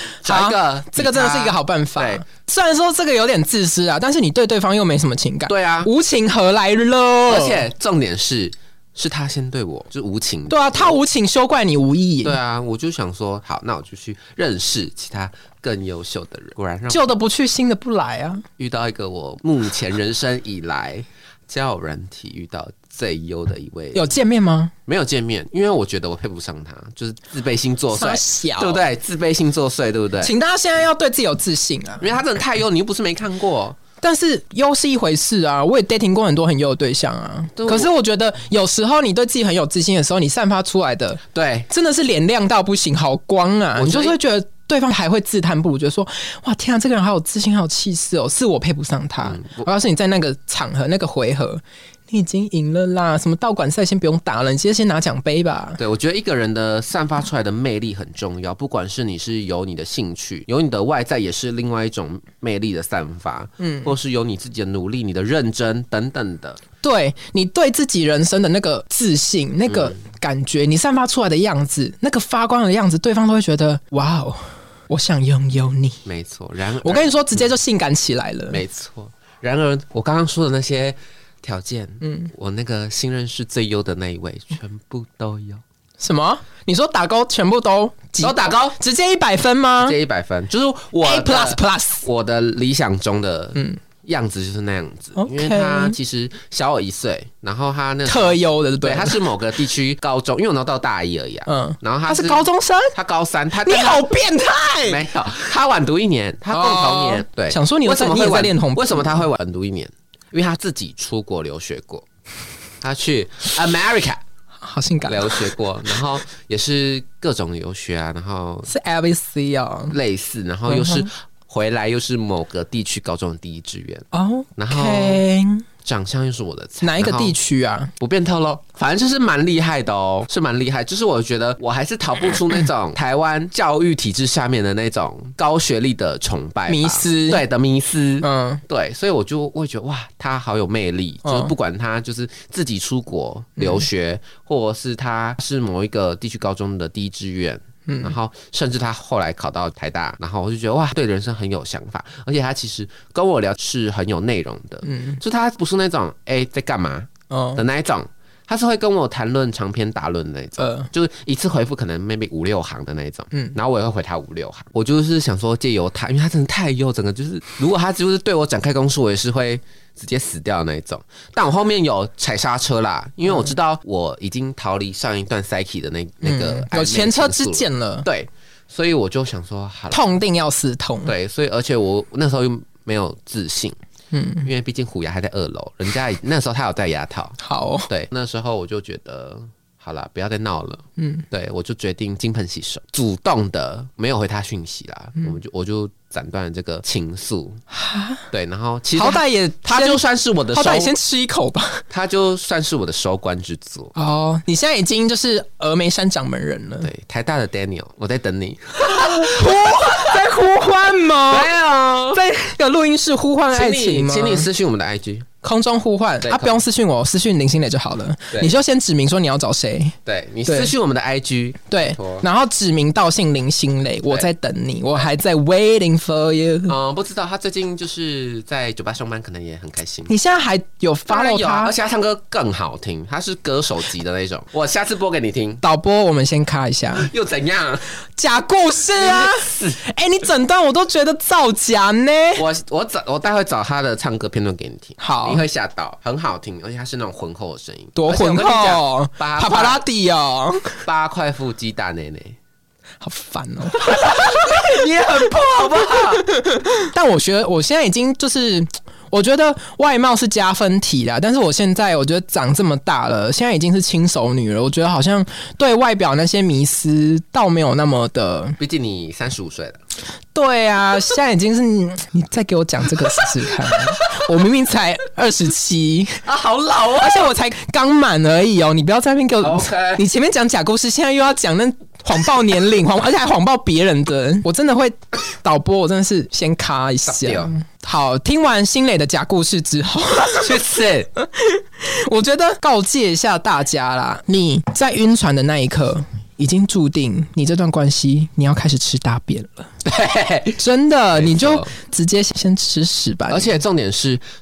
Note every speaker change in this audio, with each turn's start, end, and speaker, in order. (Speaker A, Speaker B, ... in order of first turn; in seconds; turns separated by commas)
Speaker A: 0.2-7.7, Speaker B: 0.2-2.2, Speaker B: 5.5-5.9, Speaker B: 7.3-11.0, Speaker A: 10.5-12.4, Speaker B: 12.2-17.1, Speaker A: 16.9-18.4, Speaker B: 18.6-24.1, Speaker A: 23.9-24.7, Speaker B: 24.9-30.3, Speaker A: 27.9-28.9, Speaker A: 30.2-32.1, Speaker B: 32.0-33.8, Speaker A: 34.0-55.8, Speaker B: 37.6-37.9, Speaker B: 41.3-41.7, Speaker B: 43.8-44.2, Speaker B: 49.2-49.7, Speaker B: 55.8-66.6, Speaker A: 63.6-63.9, Speaker A: 66.8-76.0, Speaker B: 69.7-70.0, Speaker B: 76.0-77.5, Speaker A: 76.8-78.6, Speaker B: 78.5-85.6, Speaker A: 82.0-82.3, Speaker A: 86.0-90.0, Speaker B: 88.2-88.8, Speaker B: 89.8-104.1, Speaker A: 91.0-92.0, Speaker A: 93.5-93.8, Speaker A: 95.2-96.0, Speaker A: 98.1-99.2, Speaker A: 101.5-103.0, Speaker A: 103.6-105.0, Speaker B: 104.8-112.1, Speaker A: 106.5-109.3, Speaker B: 112.8-114.2, Speaker A: 114.6-115.5, Speaker B: 115.0-118.7, Speaker A: 118.7-120.0, Speaker B: 119.9-125.2, Speaker A: 120.7-121.1, Speaker A: 124.1-125.7, Speaker B: 125.8-127.4, Speaker A: 126.8-127.9, Speaker B: 128.0-180.1, Speaker A: 136.7-137.4, Speaker A: 138.2-138.6, Speaker A: 141.2-141.5, Speaker A: 143.6-143.8, Speaker A: 147.9-148.1, Speaker A: 154.8-155.2, Speaker A: 157.3-157.6, Speaker A: 160.6-160.9, Speaker A: 176.2-178.1, Speaker A: 179.9-181.1, Speaker B: 181.1-183.8, Speaker A: 184.1-184.5, Speaker B: 184.4-187.4, Speaker A: 187.4-187.9, Speaker B: 187.9-197.6, Speaker A: 191.0-191.3, Speaker A: 197.7-198.2, Speaker B: 198.3-200.9, Speaker A: 199.0-201.8, Speaker B: 201.9-203.9, Speaker A: 203.9-206.9, Speaker B: 206.8-210.2, Speaker A: 208.8-211.5, Speaker B: 211.1-212.2, Speaker A: 212.1-214.5, Speaker B: 213.5-215.3, Speaker A: 215.4-220.0, Speaker B: 216.2-216.6, Speaker B: 218.3-218.6, Speaker B: 220.1-222.2, Speaker A: 220.5-220.7, Speaker A: 221.7-226.8, Speaker B: 226.7-230.1, Speaker A: 230.1-231.7, Speaker B: 231.1-235.6, Speaker A: 235.6-237.1, Speaker B: 236.9-237.8, Speaker A: 238.2-242.4, Speaker B: 239.0-239.8, Speaker B: 242.4-249.8, Speaker A: 245.0-245.4, Speaker A: 247.9-250.8, Speaker B: 250.8-252.4, Speaker A: 253.0-254.6, Speaker B: 253.8-256.2, Speaker A: 256.2-268.6, Speaker B: 268.6-269.8, Speaker A: 270.3-276.2, Speaker B: 276.2-277.3, Speaker A: 277.0-290.6, Speaker B: 279.4-280.0, Speaker B: 287.1-287.5, Speaker B: 290.4-291.1, Speaker A: 291.2-299.7, Speaker B: 299.8-300.6, Speaker A: 300.6-303.5, Speaker B: 301.1-301.7, Speaker B: 303.3-304.2